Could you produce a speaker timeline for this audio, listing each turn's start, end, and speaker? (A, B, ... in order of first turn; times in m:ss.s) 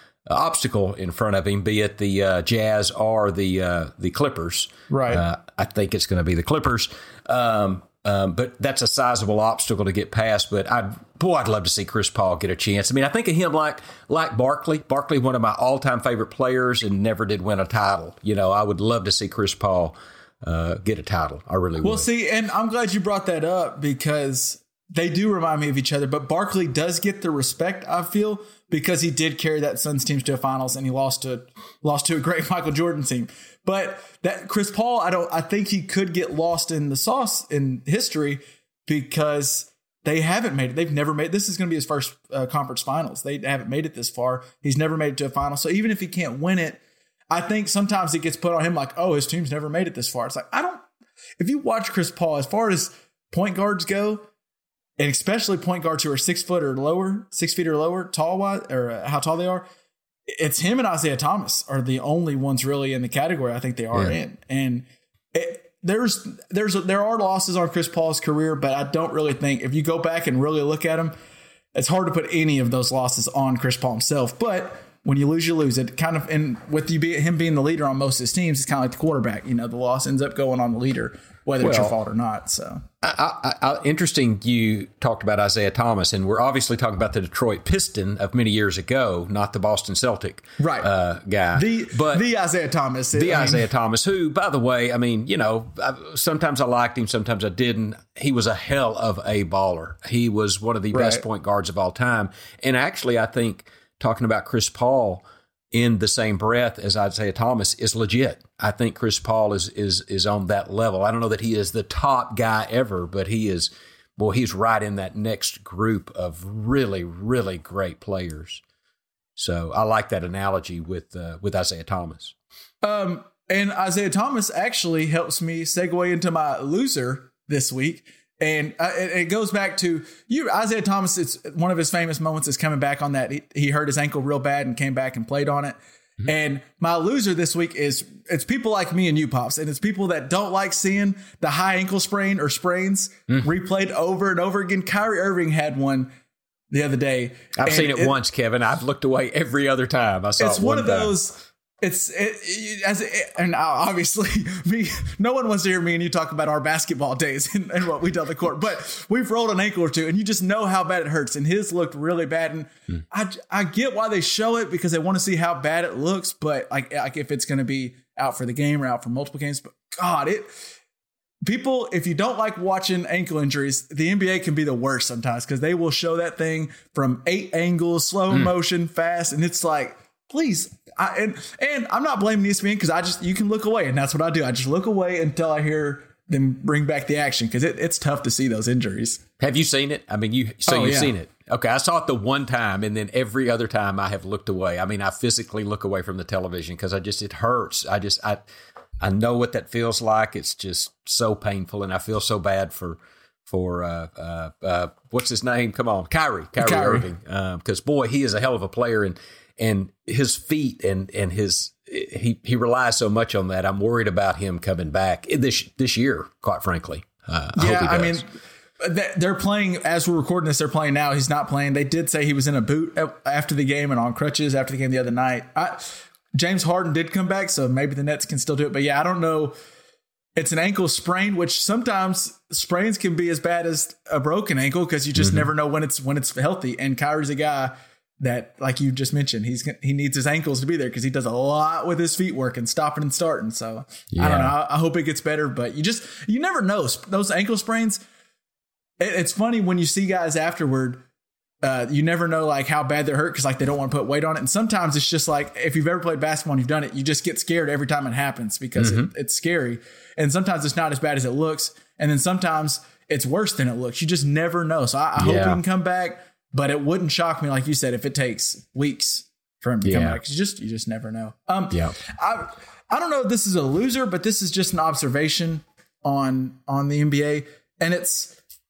0:00.2-0:22.1 A
0:04.9-0:05.2 B
0:21.8-0:50.8 B
0:51.4-0:54.2 B
0:55.0-0:59.6 B
1:00.3-1:11.1 B
1:11.7-1:22.8 B
1:21.6-1:21.9 A
1:23.0-1:32.2 A
1:30.6-1:30.9 B
1:31.5-1:33.6 B
1:33.1-1:58.6 A
1:40.9-1:41.2 B
1:59.4-2:02.3 A
2:02.8-2:26.1 B
2:26.7-2:28.2 B
2:27.6-2:31.2 A
2:30.4-2:50.6 B
2:51.4-3:09.2 B
3:09.4-3:18.4 A
3:10.7-3:11.1 B
3:19.0-3:38.2 A
3:26.6-3:27.0 B
3:37.5-3:38.3 B
3:38.8-3:49.5 B
3:50.4-4:08.0 B
3:55.2-3:55.5 A
4:04.1-4:04.5 A
4:09.0-4:11.0 B
4:11.6-4:38.4 B
4:18.8-4:19.1 A
4:25.2-4:25.6 A
4:29.8-4:30.2 A